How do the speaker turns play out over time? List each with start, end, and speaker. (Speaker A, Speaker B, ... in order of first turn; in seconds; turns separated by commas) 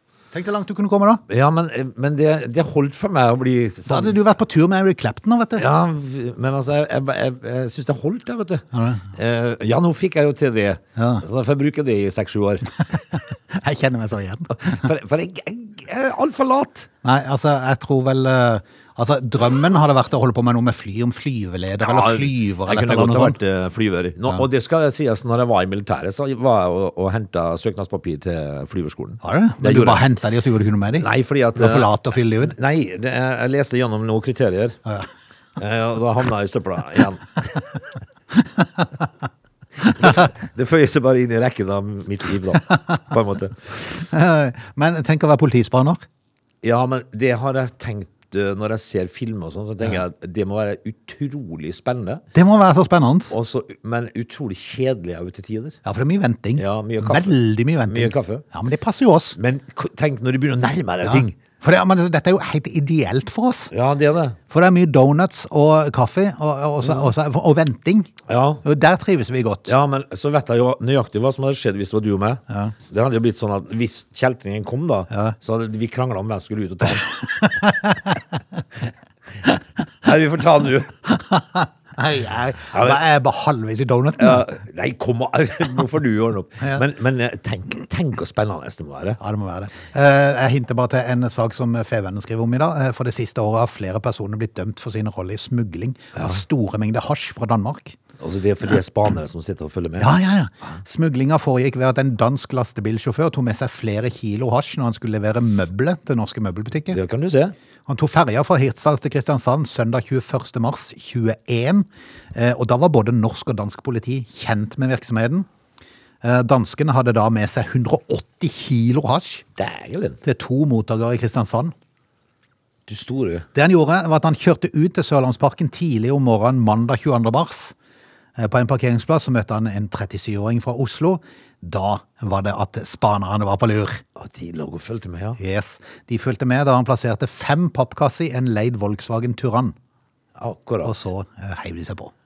Speaker A: 0.3-1.2, Speaker B: 1.3-4.2, Speaker A: 3.9-5.6, Speaker B: 5.6-13.0, Speaker A: 8.7-9.1, Speaker A: 11.0-11.2, Speaker A: 12.9-14.9, Speaker B: 14.6-16.9, Speaker A: 17.0-23.4, Speaker B: 21.8-30.0, Speaker A: 29.2-32.5, Speaker B: 31.0-34.8, Speaker B: 35.6-37.8, Speaker A: 38.6-38.8, Speaker B: 39.8-43.8, Speaker A: 40.0-40.2, Speaker A: 43.9-46.0, Speaker B: 46.6-52.2, Speaker A: 52.3-53.3, Speaker B: 53.3-55.8, Speaker A: 55.9-59.4, Speaker B: 56.6-58.4, Speaker B: 59.4-61.4, Speaker A: 61.0-63.7, Speaker B: 63.7-64.4, Speaker A: 64.5-68.1, Speaker B: 66.8-67.1, Speaker B: 68.3-68.6, Speaker A: 68.6-69.7, Speaker B: 69.7-77.1, Speaker A: 77.2-78.2, Speaker B: 80.0-80.9, Speaker A: 81.1-84.5, Speaker B: 82.7-83.0, Speaker B: 84.2-89.2, Speaker A: 89.2-98.0, Speaker B: 96.2-96.4, Speaker B: 98.2-100.1, Speaker A: 100.0-107.0, Speaker B: 106.9-107.5, Speaker A: 107.9-115.5, Speaker A: 116.2-119.5, Speaker B: 119.6-120.2, Speaker A: 120.2-121.7, Speaker B: 122.9-123.5, Speaker A: 123.5-127.8, Speaker A: 128.4-134.0, Speaker B: 134.2-135.4, Speaker A: 135.4-139.8, Speaker B: 140.4-141.0, Speaker A: 140.8-142.1